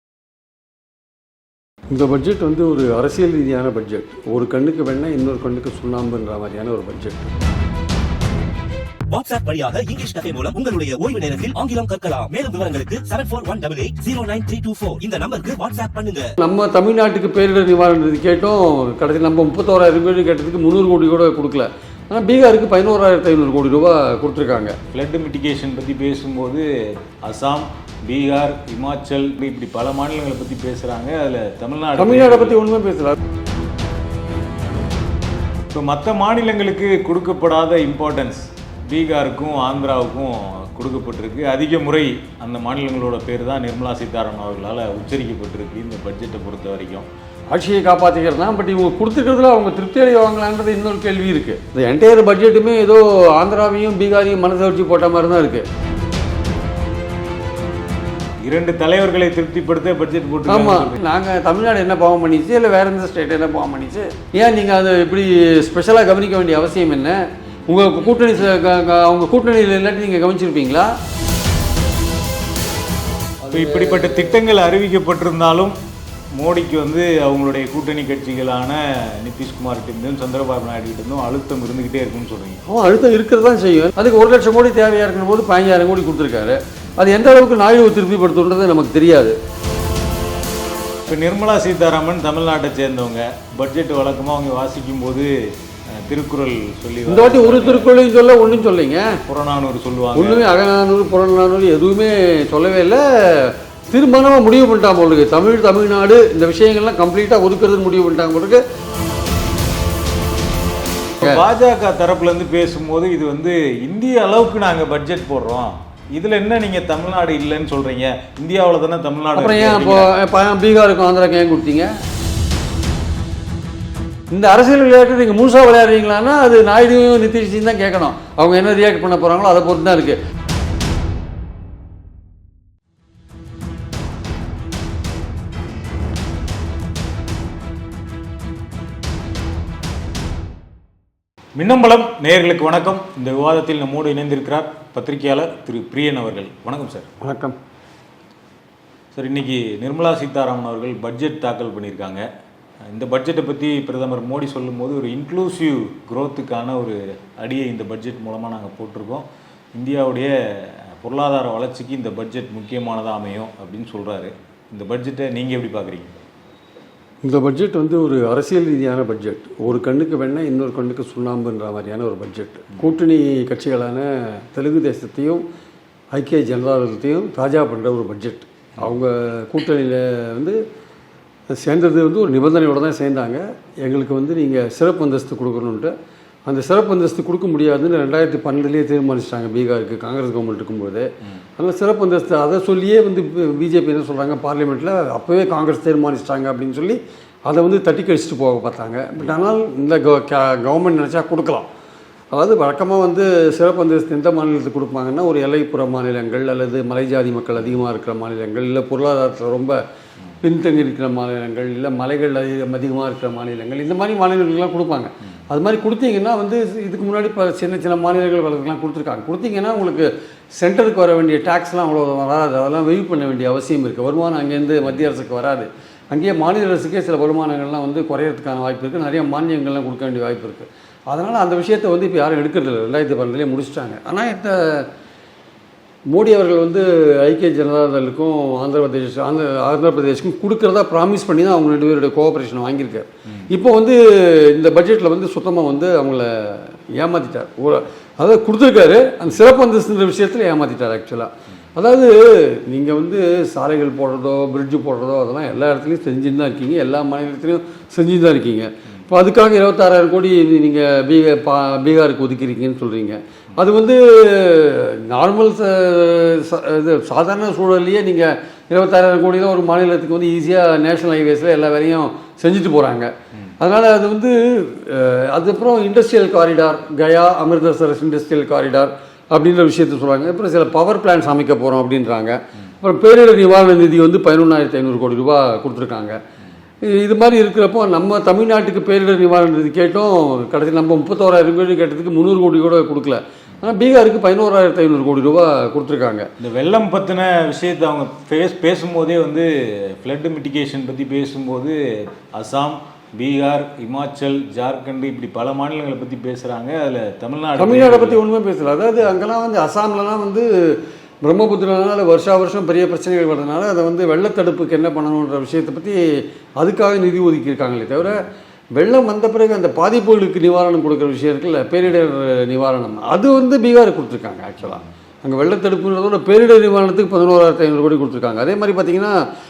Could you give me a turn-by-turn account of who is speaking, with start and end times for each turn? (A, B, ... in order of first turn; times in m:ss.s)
0:01.9-0:07.3 A
0:09.1-0:16.2 B
0:16.4-0:24.7 A
0:24.9-0:26.6 C
0:27.2-0:32.6 C
0:32.0-0:33.1 A
0:35.7-0:47.1 C
0:47.5-0:55.6 A
0:58.4-1:01.0 C
1:00.5-1:10.9 A
1:13.4-1:14.4 A
1:13.5-1:15.8 C
1:16.4-1:22.6 C
1:22.7-1:29.4 A
1:31.1-1:35.3 C
1:36.0-1:37.9 C
1:37.0-1:39.2 A
1:39.2-1:40.5 C
1:40.1-1:48.6 A
1:51.2-2:00.1 C
1:59.3-2:01.9 A
2:04.3-2:10.2 A
2:21.6-2:27.1 C
2:27.2-2:27.6 A
2:29.1-2:32.2 C
2:32.9-2:46.1 C
2:47.2-2:55.4 A
2:56.1-3:00.6 A
3:01.5-3:05.9 A
3:06.4-3:21.7 A
3:22.3-3:29.8 A
3:30.4-3:54.9 A
3:56.1-4:46.2 A
4:46.8-4:56.3 A
4:56.4-4:59.5 C
5:00.0-5:01.8 C
5:02.4-5:08.2 C
5:07.6-5:16.0 A
5:16.6-5:18.2 A
5:18.8-5:29.2 A